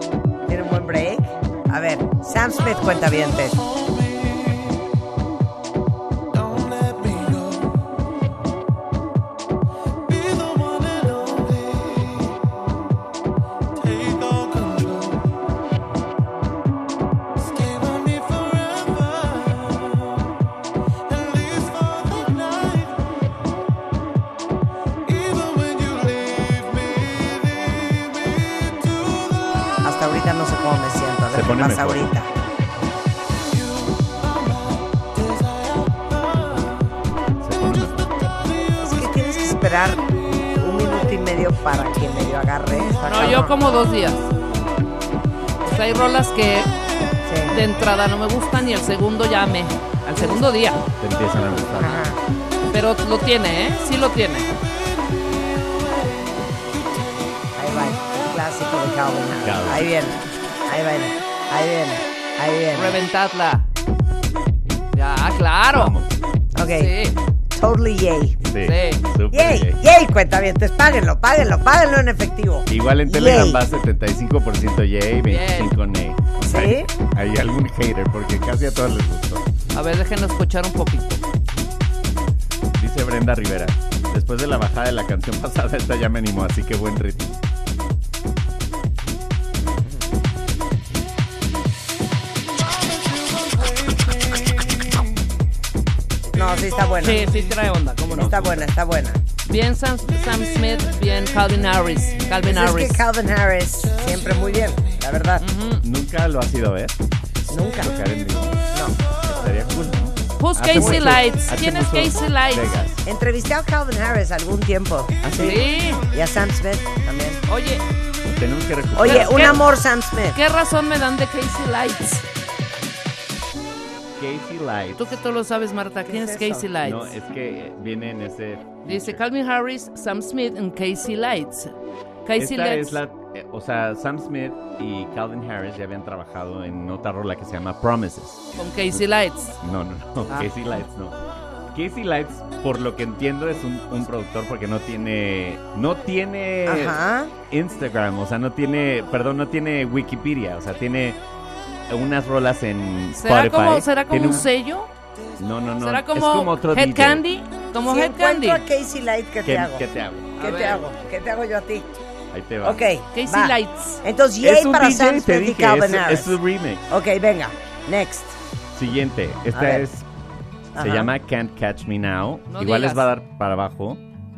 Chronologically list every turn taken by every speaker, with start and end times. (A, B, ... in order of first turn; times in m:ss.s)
0:00.5-0:03.6 A
0:03.6-0:04.9 B
0:06.3-0:07.8 B
0:10.1-0:12.4 B
0:13.8-0:15.3 B
0:17.4-0:20.3 B
0:21.1-0:23.0 B
0:25.1-0:29.8 B
0:29.8-0:32.3 A
0:31.3-0:32.1 C
0:33.5-0:36.9 B
0:37.4-0:38.2 C
0:38.8-0:43.6 A
0:43.0-0:44.3 D
0:45.6-0:46.7 D
0:47.2-0:47.6 A
0:47.5-0:50.8 D
0:51.0-0:52.1 C
0:51.8-0:52.2 A
0:52.7-0:54.5 D
0:57.6-1:03.0 A
0:59.4-0:59.9 C
1:02.7-1:03.7 D
1:04.9-1:05.9 D
1:05.7-1:06.1 C
1:06.6-1:07.0 A
1:06.6-1:07.2 D
1:07.5-1:08.4 A
1:08.4-1:09.8 C
1:08.6-1:09.0 D
1:09.3-1:13.6 A
1:12.7-1:19.4 C
1:15.3-1:15.7 D
1:16.4-1:16.9 A
1:19.7-1:21.2 D
1:22.8-1:27.4 C
1:29.6-1:30.1 A
1:32.8-1:35.0 B
1:36.3-1:37.3 A
1:36.4-1:37.5 B
1:37.0-1:38.6 D
1:38.1-1:39.2 A
1:38.2-1:38.5 C
1:39.4-1:43.0 D
1:42.4-1:45.4 A
1:45.4-1:45.8 D
1:45.8-1:47.0 C
1:47.5-1:48.0 A
1:47.8-1:48.7 C
1:48.7-1:49.0 A
1:49.2-1:53.0 C
1:50.4-1:52.8 D
1:50.7-1:51.1 A
1:53.0-1:55.6 A
1:55.2-1:55.6 C
1:55.4-1:56.0 D
1:56.1-1:57.4 A
1:57.5-1:57.8 D
1:58.2-1:59.7 C
1:59.0-2:00.4 A
1:59.0-1:59.6 D
2:00.3-2:02.2 D
2:04.2-2:05.2 C
2:05.0-2:07.2 D
2:06.1-2:06.7 A
2:06.8-2:09.2 C
2:08.8-2:11.7 D
2:12.2-2:13.0 D
2:12.4-2:18.4 C
2:18.6-2:19.6 D
2:19.6-2:21.2 C
2:21.7-2:31.2 C
2:26.7-2:27.3 A
2:31.9-2:34.5 C
2:33.2-2:34.9 D
2:35.4-2:37.2 C
2:35.8-2:38.6 D
2:37.8-2:39.8 A
2:39.4-2:40.3 C
2:40.4-2:40.9 D
2:40.4-2:42.0 A
2:42.3-2:42.8 C
2:42.6-2:46.4 A
2:43.1-2:44.0 D
2:44.4-2:46.8 C
2:46.9-2:48.4 A
2:48.8-2:50.1 C
2:49.5-2:49.9 A
2:50.8-2:51.1 A
2:50.8-2:54.0 C
2:52.5-2:53.1 D